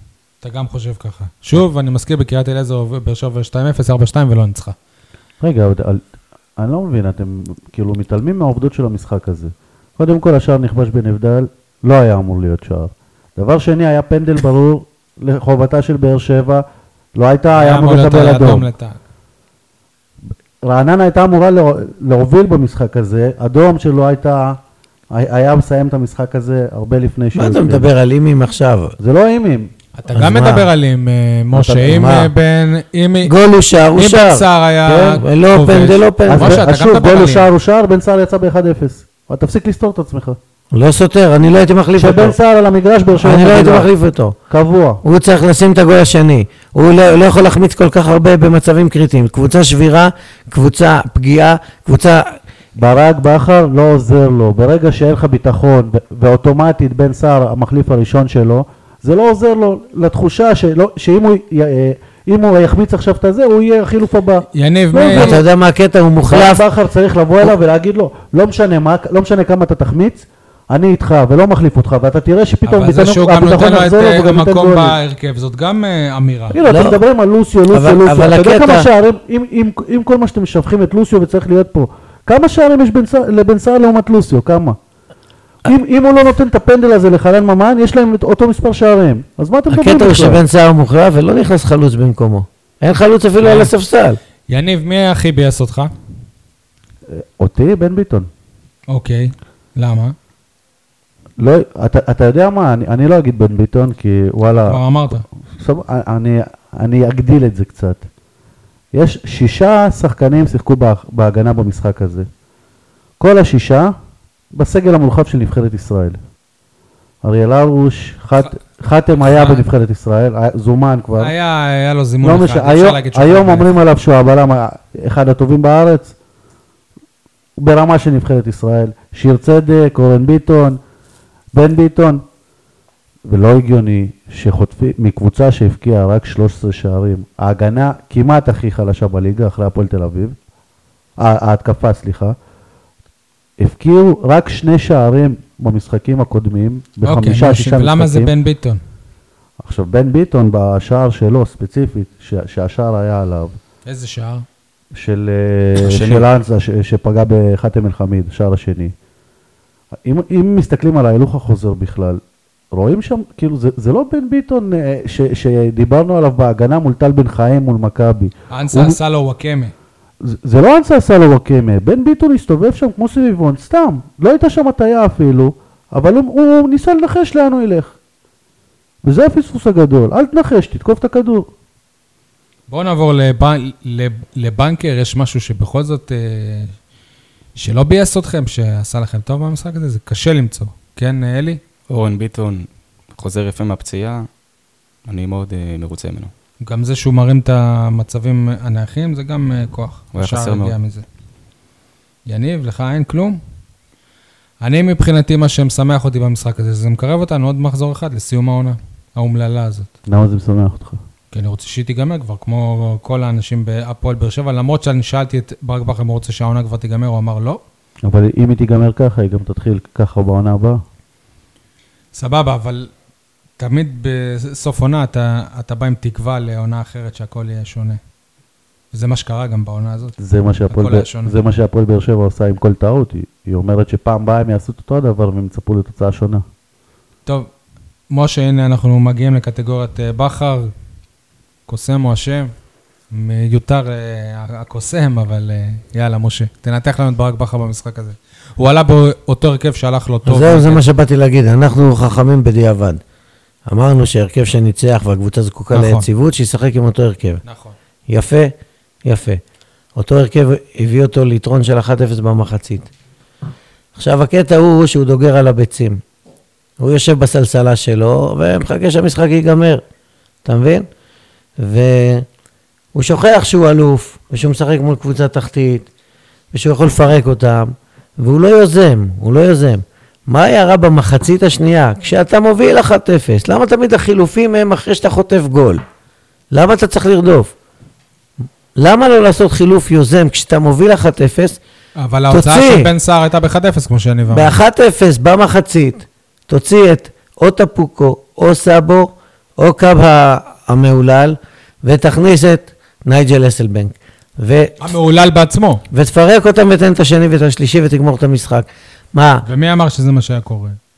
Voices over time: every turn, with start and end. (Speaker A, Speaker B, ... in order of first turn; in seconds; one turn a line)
Speaker A: 0.4-4.8
Speaker B: 5.4-6.0
Speaker B: 6.6-16.6
Speaker B: 17.1-18.7
Speaker A: 17.5-19.0
Speaker B: 20.6-24.6
Speaker B: 25.1-27.9
Speaker C: 27.4-28.9
Speaker B: 29.0-29.7
Speaker A: 30.0-33.3
Speaker C: 30.1-30.7
Speaker C: 31.5-32.3
Speaker C: 33.2-36.6
Speaker A: 33.9-37.5
Speaker B: 36.3-40.4
Speaker C: 40.7-42.3
Speaker B: 42.0-43.9
Speaker C: 43.2-44.4
Speaker B: 44.5-45.0
Speaker C: 45.0-52.4
Speaker B: 52.8-65.4
Speaker A: 64.5-65.4
Speaker C: 65.1-66.6
Speaker B: 66.2-75.0
Speaker A: 72.7-76.6
Speaker B: 76.5-84.8
Speaker C: 76.6-77.0
Speaker C: 77.7-78.9
Speaker B: 85.6-90.4
Speaker C: 89.7-94.2
Speaker A: 93.4-93.7
Speaker A: 94.5-95.9
Speaker B: 97.1-98.3
Speaker A: 98.9-100.1
Speaker B: 101.4-104.8
Speaker A: 104.7-105.2
Speaker B: 105.5-108.0
Speaker B: 108.9-112.3
Speaker B: 113.2-113.9
Speaker B: 114.5-116.2
Speaker B: 117.2-121.3
Speaker A: 119.2-119.6
Speaker A: 121.2-123.7
Speaker B: 122.2-126.1
Speaker B: 127.6-130.8
Speaker B: 131.5-132.2
Speaker B: 133.2-140.3
Speaker B: 141.2-142.3
Speaker B: 143.6-148.3
Speaker A: 147.0-148.8
Speaker B: 149.6-153.6
Speaker A: 153.8-154.4
Speaker B: 154.9-158.9
Speaker D: 155.8-156.2
Speaker B: 160.0-162.2
Speaker B: 162.7-169.0
Speaker A: 168.5-169.7
Speaker B: 170.2-177.9
Speaker B: 179.0-181.5
Speaker A: 182.7-186.7
Speaker A: 187.5-191.6
Speaker D: 191.9-194.3
Speaker D: 195.1-196.3
Speaker A: 196.6-201.0
Speaker D: 200.1-200.7
Speaker A: 202.3-203.4
Speaker A: 204.6-209.9
Speaker B: 210.1-211.0
Speaker A: 211.3-217.6
Speaker B: 218.0-220.8
Speaker A: 222.1-222.9
Speaker A: 223.6-228.0
Speaker A: 228.9-230.2
Speaker B: 230.2-236.4
Speaker A: 230.7-231.3
Speaker A: 237.2-237.5
Speaker A: 238.1-240.7
Speaker A: 241.7-242.5
Speaker A: 243.1-250.8
Speaker C: 250.2-253.0
Speaker C: 253.7-257.4
Speaker A: 255.7-256.1
Speaker A: 257.4-257.7
Speaker C: 258.1-258.5
Speaker C: 259.0-259.4
Speaker C: 259.9-262.9
Speaker C: 263.9-266.0
Speaker C: 266.8-269.8
Speaker C: 270.4-270.9
Speaker C: 271.6-272.2
Speaker C: 272.9-275.9
Speaker C: 276.5-285.8
Speaker C: 286.5-287.5
Speaker C: 288.8-291.6
Speaker A: 292.0-294.6
Speaker C: 292.3-292.9
Speaker C: 294.3-304.8
Speaker A: 304.8-305.8
Speaker C: 305.9-309.4
Speaker A: 309.4-310.8